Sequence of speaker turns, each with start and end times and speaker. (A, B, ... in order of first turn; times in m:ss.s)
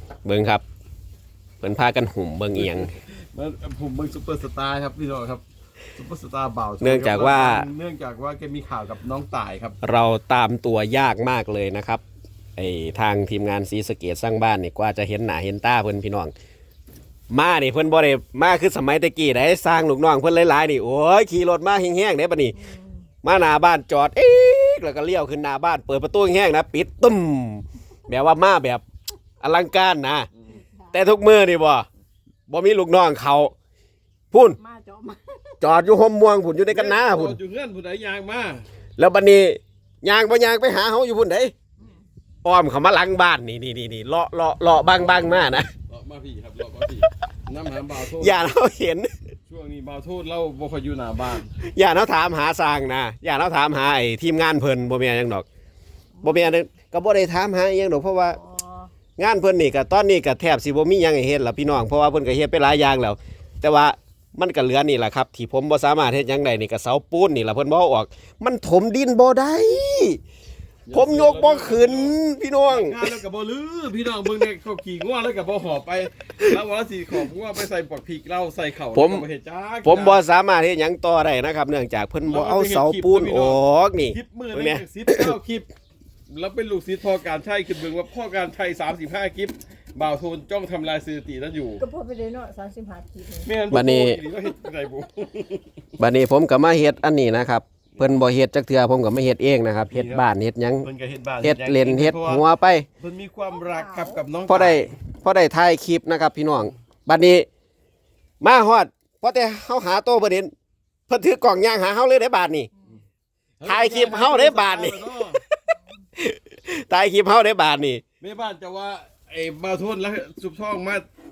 0:00.2-0:00.6 A
0:01.6-0:02.9 A
0:02.5-0:05.4 B
0:05.9-0:09.8 B
0:06.8-0:07.7 A
0:09.8-0:12.0 A
0:12.6-0:16.3 A
0:17.3-0:22.6 A
0:22.5-0:23.1 C
0:23.2-0:28.8 A
0:29.4-0:30.3 A
0:30.5-0:31.1 C
0:30.9-0:31.8 A
0:32.5-0:33.5 A
0:34.3-0:34.6 A
0:34.6-0:35.6 C
0:35.6-0:37.4 A
0:36.7-0:38.7 B
0:39.0-0:41.5 A
0:42.4-0:45.7 A
0:44.9-0:48.4 B
0:48.2-0:49.1 A
0:49.5-0:51.5 B
0:51.6-0:55.4 A
0:56.1-0:56.5 C
0:56.2-0:58.4 A
0:58.3-0:58.9 C
0:59.2-1:10.2 A
1:10.8-1:20.2 B
1:10.9-1:13.1 A
1:18.9-1:19.2 A
1:19.8-1:25.3 A
1:22.2-1:25.7 B
1:26.3-1:31.8 B
1:31.8-1:33.6 C
1:33.4-1:35.7 B
1:33.7-1:34.2 A
1:36.0-1:40.9 A
1:39.9-1:40.2 B
1:40.8-1:42.4 B
1:41.4-1:42.9 A
1:43.0-1:45.0 B
1:43.5-1:44.2 C
1:44.5-1:47.4 A
1:48.4-1:50.5 A
1:51.1-1:52.7 A
1:53.6-1:55.4 B
1:53.6-1:55.6 A
1:56.2-1:58.0 A
1:58.2-2:01.0 B